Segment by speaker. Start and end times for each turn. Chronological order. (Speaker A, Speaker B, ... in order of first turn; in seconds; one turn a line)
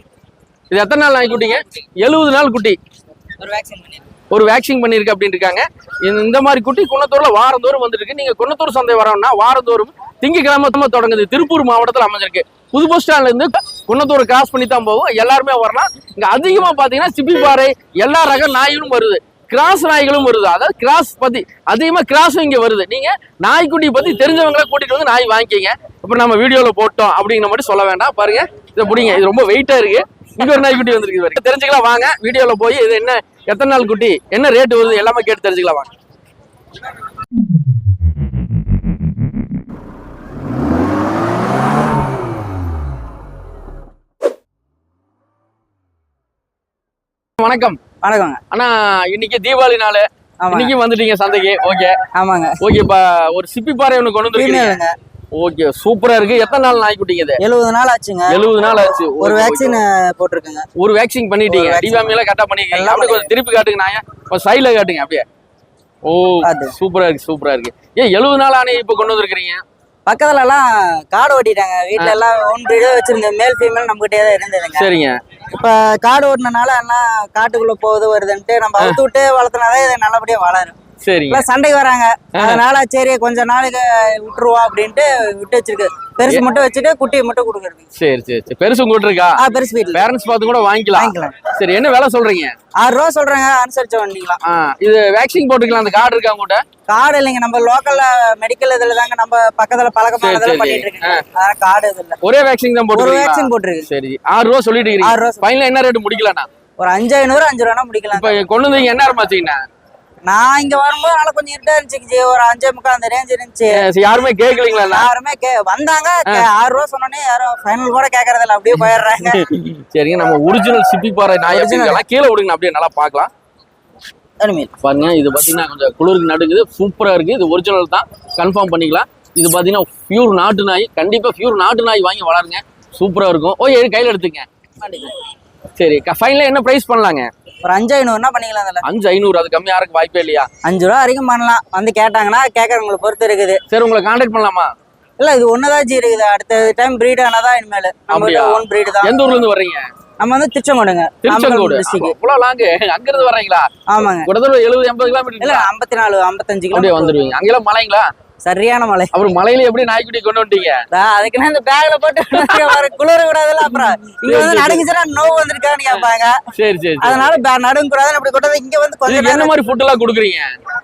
Speaker A: 0.7-2.8
Speaker B: 3.4-4.0
Speaker A: 4.3-35.9
Speaker A: 47.4-47.8
Speaker B: 48.0-48.4
Speaker A: 48.5-52.0
Speaker B: 50.4-50.7
Speaker B: 52.1-52.6
Speaker A: 52.6-54.8
Speaker B: 54.3-55.0
Speaker A: 55.3-57.4
Speaker B: 57.4-58.4
Speaker A: 58.3-59.8
Speaker B: 59.2-60.7
Speaker A: 60.8-65.2
Speaker B: 61.5-62.2
Speaker B: 62.7-63.3
Speaker A: 66.1-69.6
Speaker B: 66.4-66.7
Speaker B: 70.1-74.9
Speaker A: 74.8-75.2
Speaker B: 75.5-80.8
Speaker A: 81.0-81.5
Speaker B: 81.3-87.9
Speaker A: 82.3-82.6
Speaker A: 88.0-89.4
Speaker B: 89.4-90.0
Speaker A: 89.9-92.5
Speaker B: 90.9-91.4
Speaker B: 92.8-94.4
Speaker A: 94.4-96.6
Speaker B: 96.9-102.2
Speaker A: 100.2-101.2
Speaker A: 102.2-106.5
Speaker B: 102.9-103.9
Speaker B: 105.0-105.5
Speaker B: 106.8-108.4
Speaker A: 108.1-109.6
Speaker B: 110.3-113.9
Speaker A: 113.7-115.1
Speaker B: 114.7-119.4
Speaker A: 119.2-123.3
Speaker B: 121.5-122.0
Speaker B: 124.4-124.7
Speaker A: 124.8-134.5
Speaker A: 135.8-137.3
Speaker B: 137.6-138.8
Speaker A: 138.8-140.5
Speaker B: 140.6-143.6
Speaker A: 143.7-144.7
Speaker B: 145.2-149.2
Speaker A: 148.1-149.9
Speaker B: 150.2-152.2
Speaker A: 151.2-153.7
Speaker B: 153.9-154.3
Speaker A: 154.2-155.7
Speaker B: 155.4-157.2
Speaker A: 156.7-158.1
Speaker B: 158.4-159.1
Speaker A: 159.1-160.9
Speaker B: 160.9-166.4
Speaker A: 162.3-162.8
Speaker A: 163.7-164.9
Speaker A: 166.6-167.4
Speaker B: 167.0-169.5
Speaker A: 169.1-170.6